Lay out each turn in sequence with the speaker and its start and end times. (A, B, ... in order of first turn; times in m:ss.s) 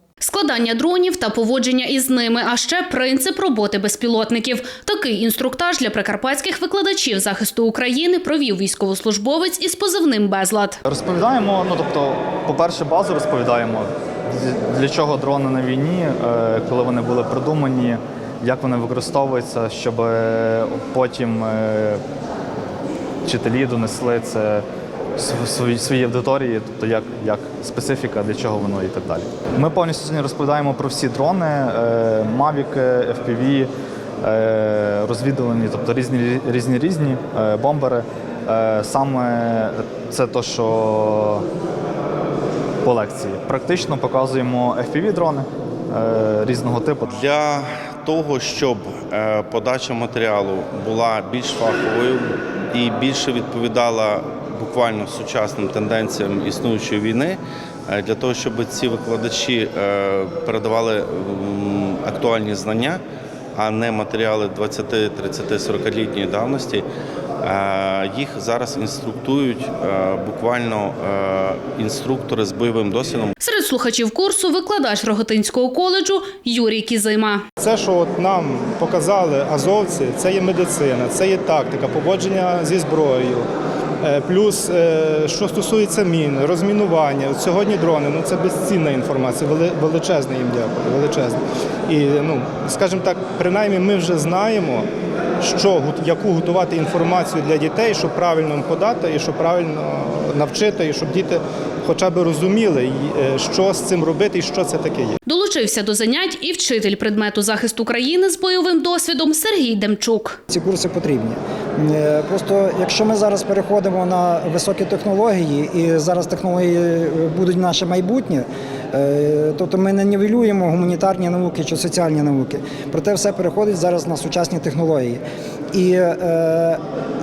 0:00.2-0:10.8 A
0:10.8-0:22.0 B
0:23.2-0:24.6 B
0:25.2-0:33.7 B
0:34.2-0:41.4 B
0:42.8-0:47.1 B
0:47.1-1:03.0 C
1:03.6-1:06.8 C
1:07.4-1:13.3 C
1:13.4-1:17.4 A
1:17.6-1:23.5 D
1:24.0-1:34.8 D
1:35.4-1:45.2 D
1:45.2-1:50.4 A
1:50.5-2:06.8 E